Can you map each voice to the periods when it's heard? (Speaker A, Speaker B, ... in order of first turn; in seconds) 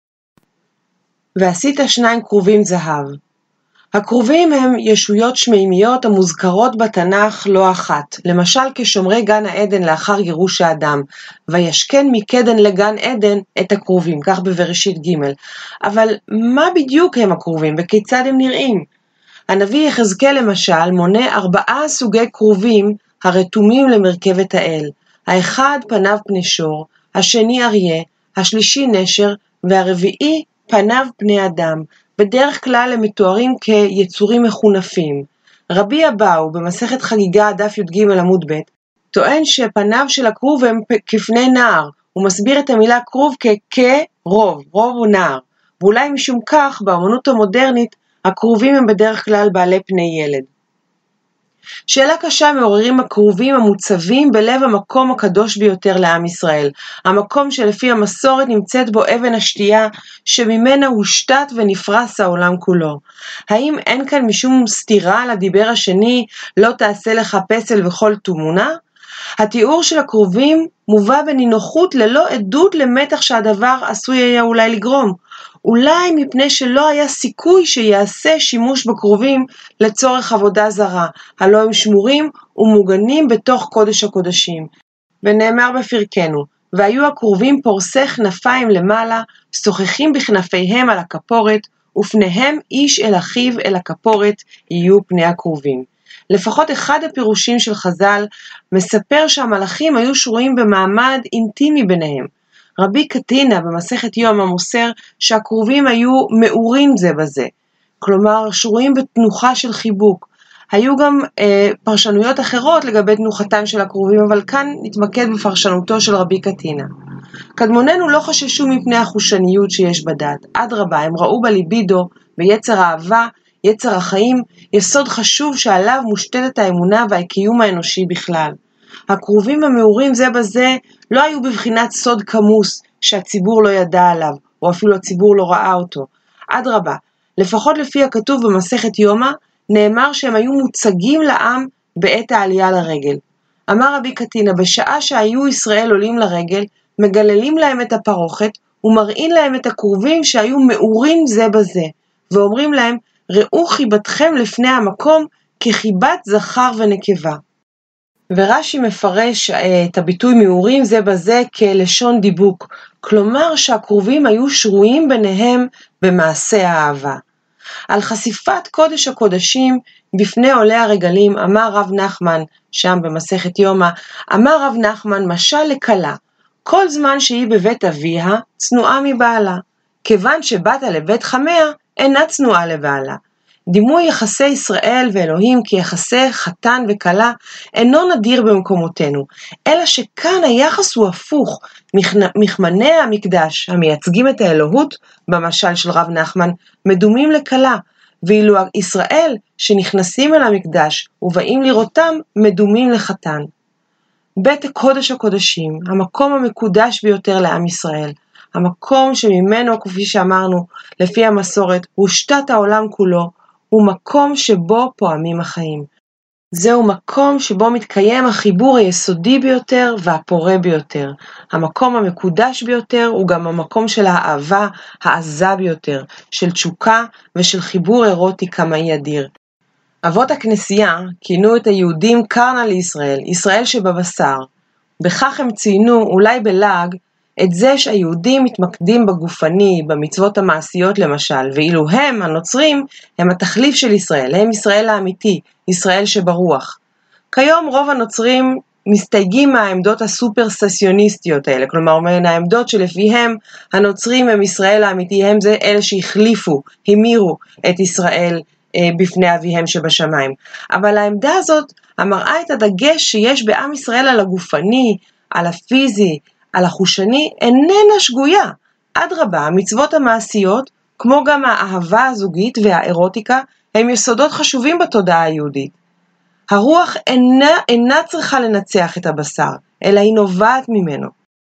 Speaker A: 1.4-3.2, 3.9-18.9, 19.5-50.5, 51.9-68.7, 69.4-84.7, 85.2-116.9, 117.6-128.6, 129.1-157.4, 158.3-167.2, 167.9-203.5, 204.4-215.9, 216.5-229.3, 230.0-234.5, 235.0-246.8, 247.3-275.8, 276.5-281.1